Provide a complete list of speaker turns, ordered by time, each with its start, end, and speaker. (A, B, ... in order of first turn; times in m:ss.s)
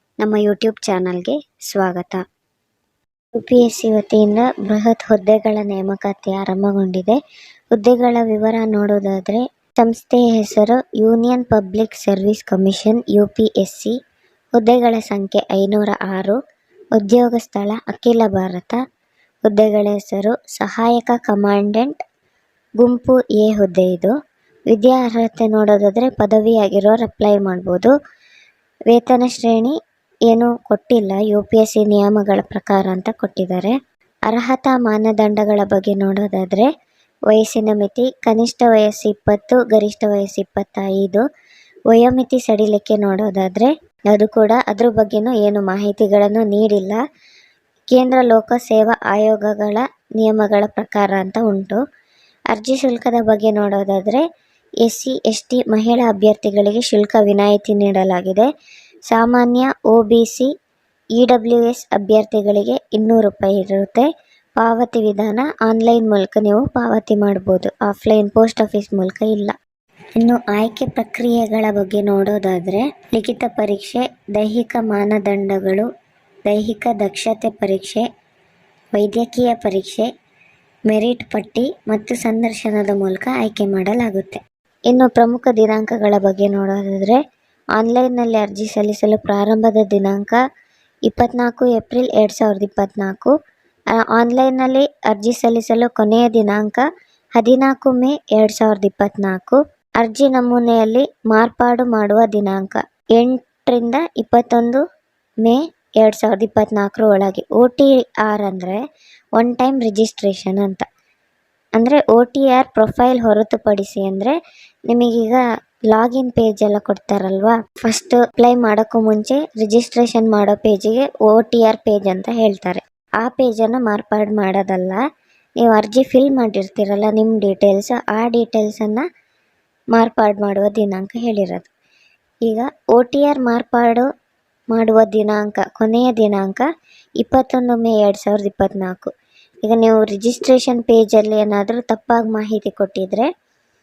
0:00.2-0:02.2 A
0:03.4-0:07.2 A
0:07.7-0:14.0 A
0:14.6-0:16.4 A
0:17.0-0:18.8 A
0:19.5-0:22.0 A
0:22.8-0:24.1 A
0:24.7-0:27.9 A
0:28.9-0:29.7 A
0:30.3-0:33.7 A
0:34.3-0:36.7 A
0:37.3-0:41.2 A
0:41.9-0:47.0 A
0:47.9-0:51.8 A
0:52.5-0:54.2 A
0:54.8-0:58.5 A
0:59.1-1:00.5 A
1:01.2-1:04.1 A
1:04.6-1:09.6 A
1:10.2-1:15.9 A
1:16.5-1:18.0 A
1:18.9-1:20.1 A
1:20.9-1:24.4 A
1:24.9-1:27.2 A
1:27.8-1:30.4 A
1:31.1-1:33.3 A
1:34.0-1:36.8 A
1:37.4-1:44.8 A
1:45.4-1:48.8 A
1:49.4-1:50.9 A
1:51.8-1:54.4 A
1:54.9-1:55.4 A
1:55.9-2:05.0 A
2:05.6-2:09.0 A
2:09.9-2:11.7 A
2:12.5-2:14.1 A
2:14.7-2:16.7 A
2:17.2-2:19.1 A
2:19.6-2:23.3 A